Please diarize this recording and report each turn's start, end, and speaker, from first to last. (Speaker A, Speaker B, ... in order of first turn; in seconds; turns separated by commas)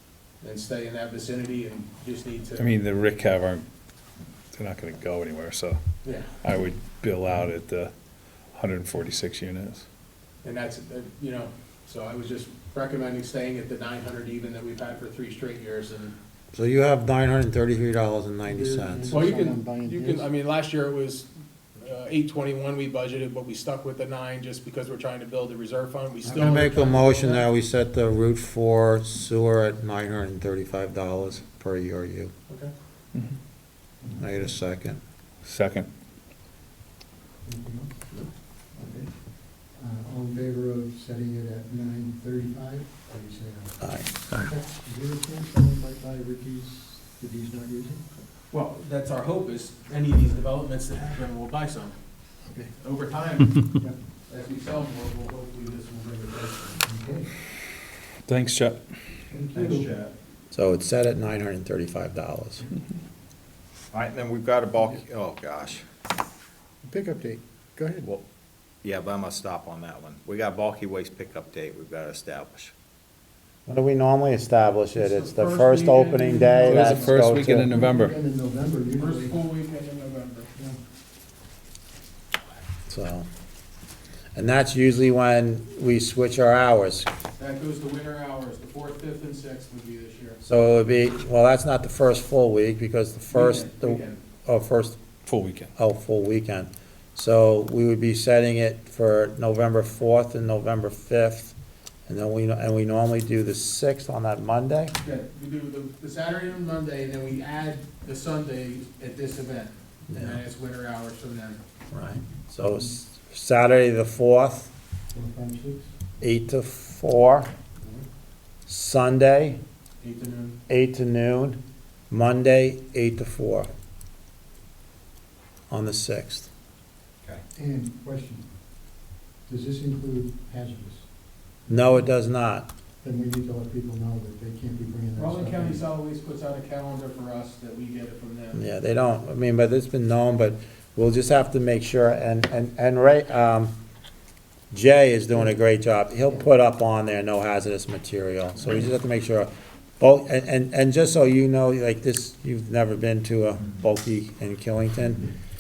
Speaker A: 0.4-2.6, Speaker B: 2.5-3.7, Speaker B: 4.5-9.8, Speaker A: 6.0-6.3, Speaker A: 10.4-16.1, Speaker C: 16.5-19.1, Speaker D: 18.4-20.3, Speaker A: 19.1-27.5, Speaker D: 26.2-26.7, Speaker C: 26.4-32.3, Speaker D: 34.0-34.4, Speaker C: 34.2-35.0, Speaker B: 35.4-35.9, Speaker D: 37.4-38.1, Speaker D: 38.7-43.9, Speaker C: 43.8-44.1, Speaker D: 44.4-48.0, Speaker A: 48.5-51.9, Speaker A: 52.8-56.8, Speaker D: 56.8-57.3, Speaker B: 58.2-58.9, Speaker D: 59.3-59.9, Speaker E: 59.5-60.1, Speaker C: 60.5-62.6, Speaker E: 63.9-65.8, Speaker D: 66.8-68.1, Speaker E: 68.8-72.7, Speaker C: 73.7-77.7, Speaker A: 75.0-77.2, Speaker B: 76.7-78.2, Speaker D: 77.6-79.5, Speaker A: 78.9-80.5, Speaker C: 82.9-83.2, Speaker C: 84.3-87.1, Speaker A: 87.4-90.4, Speaker C: 90.4-95.0, Speaker A: 93.3-94.2, Speaker B: 95.2-95.7, Speaker C: 95.8-101.5, Speaker C: 102.1-104.9, Speaker A: 105.0-111.6, Speaker C: 110.1-110.4, Speaker C: 111.9-114.7, Speaker D: 115.1-115.9, Speaker C: 116.2-117.5, Speaker C: 118.7-119.6, Speaker A: 120.0-120.6, Speaker C: 120.7-121.6, Speaker C: 122.1-123.7, Speaker C: 125.7-126.5, Speaker D: 127.5-128.5, Speaker D: 129.5-131.1, Speaker C: 131.7-132.7, Speaker D: 133.0-135.8, Speaker A: 135.2-138.6, Speaker C: 138.5-143.7, Speaker C: 144.7-155.2